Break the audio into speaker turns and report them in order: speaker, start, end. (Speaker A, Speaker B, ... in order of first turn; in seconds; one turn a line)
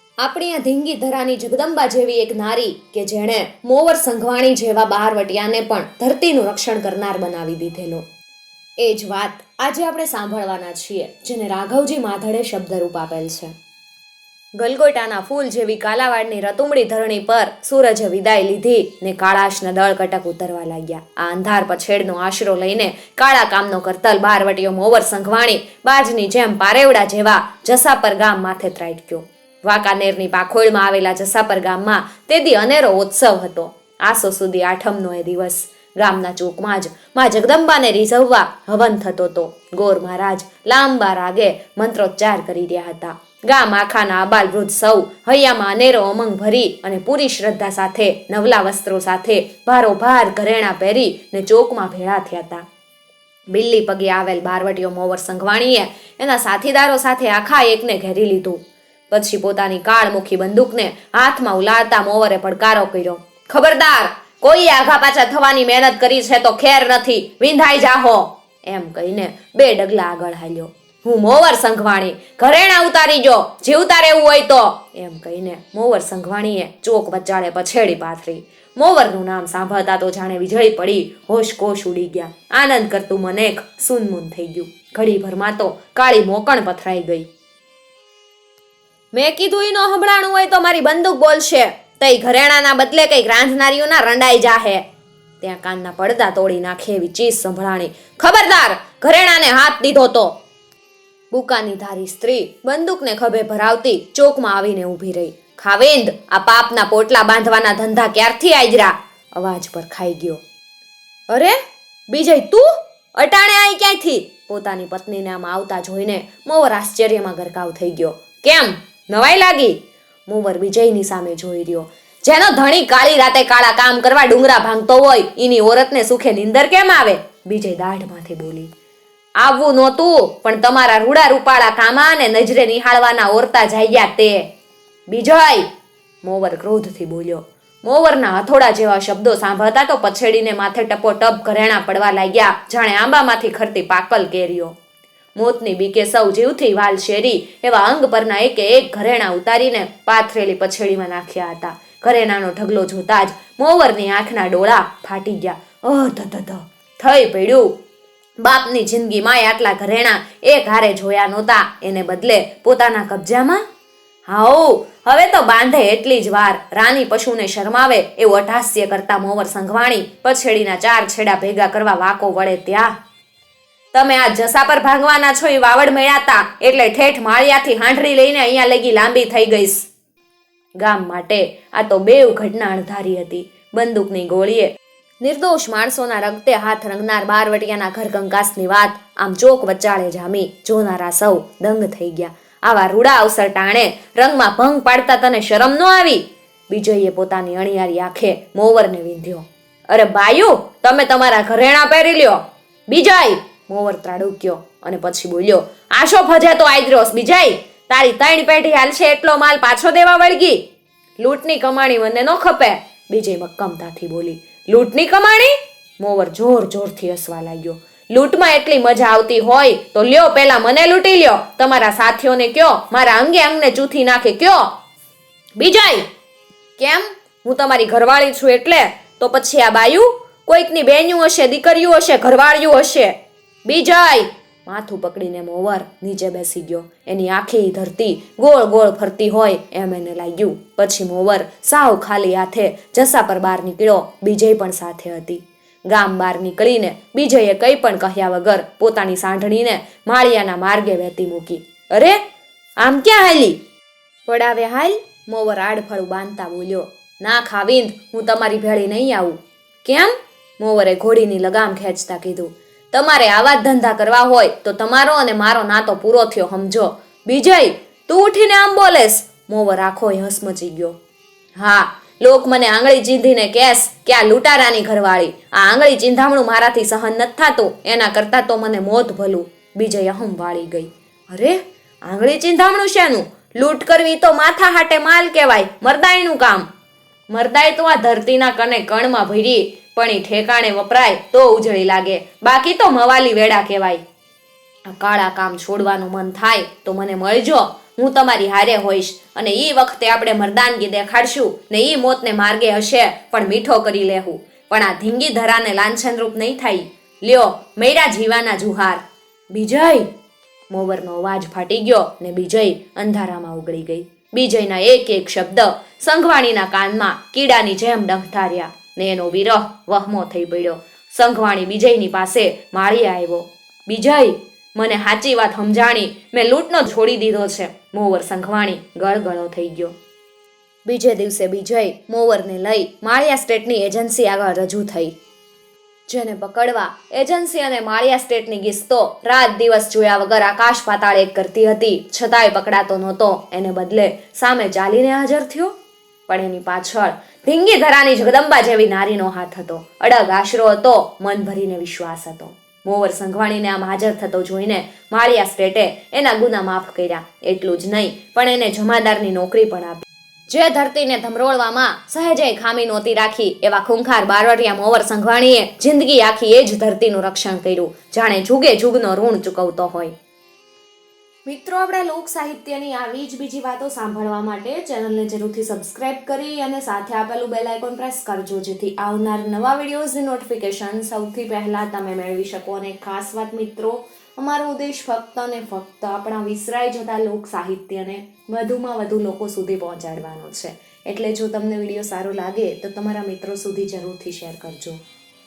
Speaker A: 0.2-8.1
Speaker A: 8.8-13.5
Speaker A: 14.6-52.6
Speaker A: 53.5-87.3
Speaker A: 89.1-94.8
Speaker A: 95.4-100.4
Speaker A: 101.3-110.4
Speaker A: 111.3-128.7
Speaker A: 129.4-134.5
Speaker A: 135.1-135.7
Speaker A: 136.2-144.8
Speaker A: 145.4-157.8
Speaker A: 158.4-163.6
Speaker A: 164.3-172.9
Speaker A: 173.9-179.9
Speaker A: 180.8-210.6
Speaker A: 211.2-224.7
Speaker A: 225.6-226.1
Speaker A: 226.8-252.2
Speaker A: 252.8-253.6
Speaker A: 254.3-271.0
Speaker A: 271.6-286.7
Speaker A: 287.3-294.0
Speaker A: 294.9-310.1
Speaker A: 310.7-329.9
Speaker A: 330.9-335.1
Speaker A: 336.1-345.8
Speaker A: 346.3-370.1
Speaker A: 371.4-395.0